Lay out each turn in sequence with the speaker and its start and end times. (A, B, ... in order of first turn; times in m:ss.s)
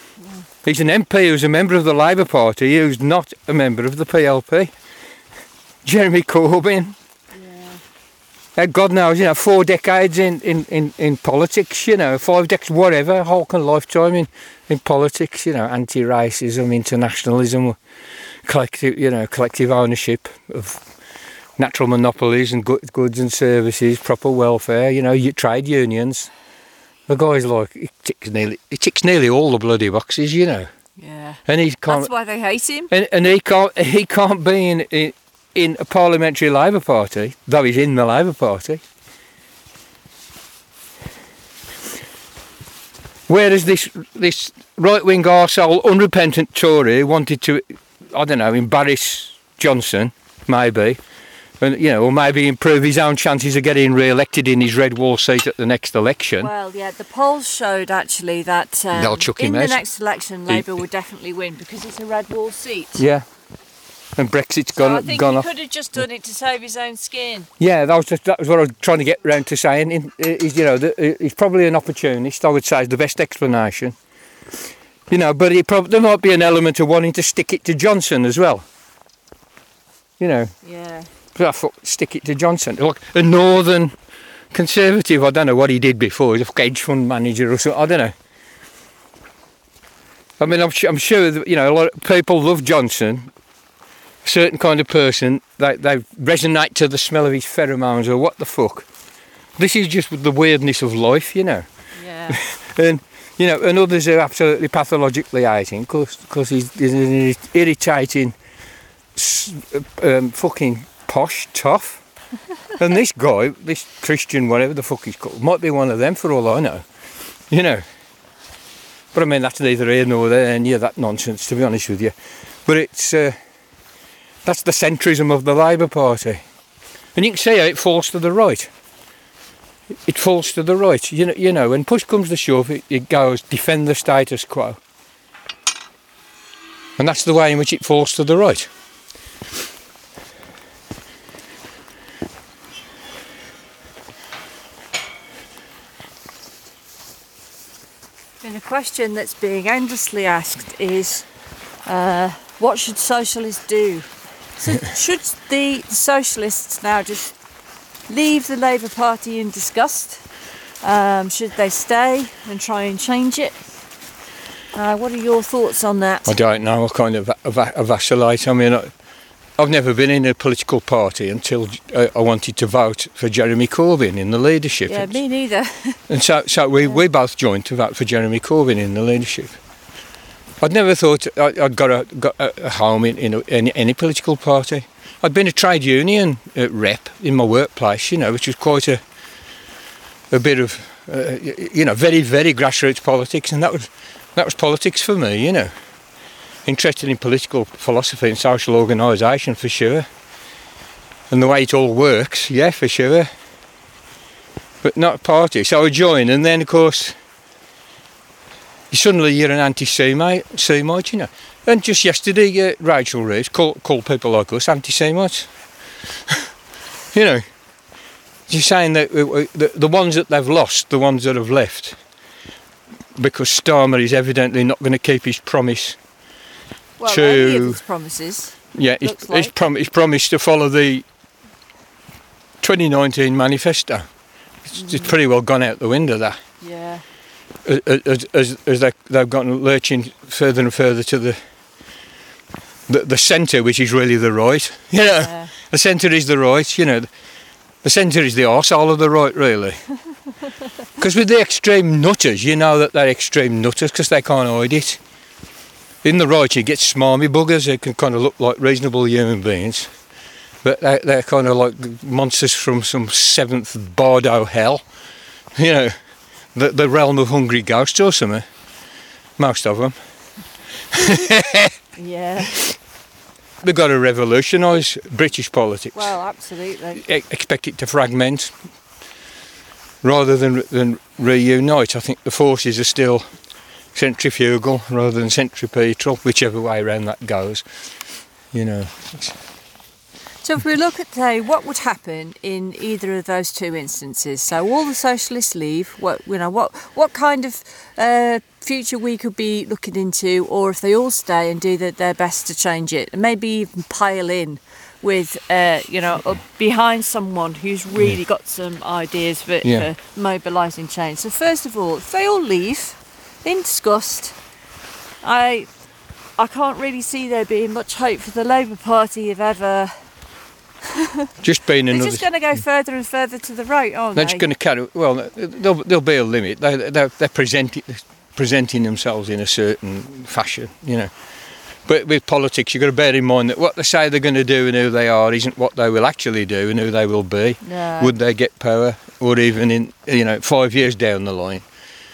0:00.6-0:04.7 A
0:05.8-0:07.0 A
0:07.4-0:07.8 B
0:08.6-0:17.8 A
0:18.4-0:20.8 A
0:21.6-0:26.3 A
0:27.1-0:30.7 A
0:31.0-0:32.9 B
0:31.5-0:32.1 A
0:32.9-0:38.8 A
0:43.3-0:51.0 A
0:51.6-0:56.5 A
0:56.4-1:03.0 B
0:58.9-0:59.8 A
1:00.5-1:00.8 A
1:03.0-1:03.2 A
1:04.2-1:05.5 A
1:04.8-1:07.5 B
1:07.6-1:14.0 A
1:15.1-1:18.6 A
1:20.2-1:20.5 A
1:20.6-1:21.1 B
1:21.4-1:23.9 A
1:24.5-1:28.1 A
1:30.4-1:33.3 A
1:34.2-1:38.9 A
1:39.6-1:41.7 A
1:42.0-1:42.4 B
1:42.3-1:48.4 A
1:49.2-1:52.0 A
1:52.8-1:56.8 A
1:57.5-1:57.8 A
1:59.1-2:02.2 A
2:02.7-2:03.4 A
2:04.4-2:06.4 A
2:07.2-2:08.7 A
2:10.1-2:14.8 A
2:17.0-2:18.7 A
2:28.4-2:31.3 B
2:31.9-2:37.4 B
2:38.1-2:40.2 B
2:40.8-2:43.6 B
2:44.7-2:46.3 B
2:46.3-2:48.9 A
2:49.6-2:55.2 A
2:54.9-2:56.0 B
2:56.1-2:59.6 A
3:00.6-3:09.0 A
3:10.3-3:15.7 A
3:16.7-3:20.1 A
3:21.3-3:23.3 A
3:24.8-3:27.2 A
3:28.9-3:35.5 A
3:37.1-3:37.4 A
3:38.5-3:42.0 A
3:43.2-3:46.0 A
3:47.0-3:49.5 B
3:47.1-3:47.8 A
3:48.7-3:51.0 A
3:52.6-3:54.1 A
3:54.7-3:56.4 A
3:54.8-3:55.1 B
3:56.6-3:57.0 B
3:57.6-4:01.4 A
4:02.9-4:07.1 A
4:05.2-4:05.5 B
4:07.8-4:09.8 A
4:11.0-4:15.0 A
4:16.0-4:19.9 A
4:20.6-4:24.8 A
4:25.6-4:25.9 A
4:26.5-4:28.4 A
4:29.4-4:30.0 A
4:30.9-4:31.8 A
4:32.0-4:32.6 B
4:32.5-4:32.8 A
4:33.6-4:36.2 A
4:36.0-4:37.0 B
4:37.0-4:38.5 A
4:40.0-4:43.3 A
4:43.9-4:47.6 A
4:48.5-4:49.4 A
4:50.4-5:14.4 B
5:09.6-5:09.9 A
5:15.2-5:15.7 B
5:16.4-5:20.0 B
5:20.9-5:21.3 B
5:21.4-5:22.3 A
5:21.9-5:24.5 B
5:24.2-5:31.1 A
5:31.9-5:41.6 A
5:37.6-5:38.1 B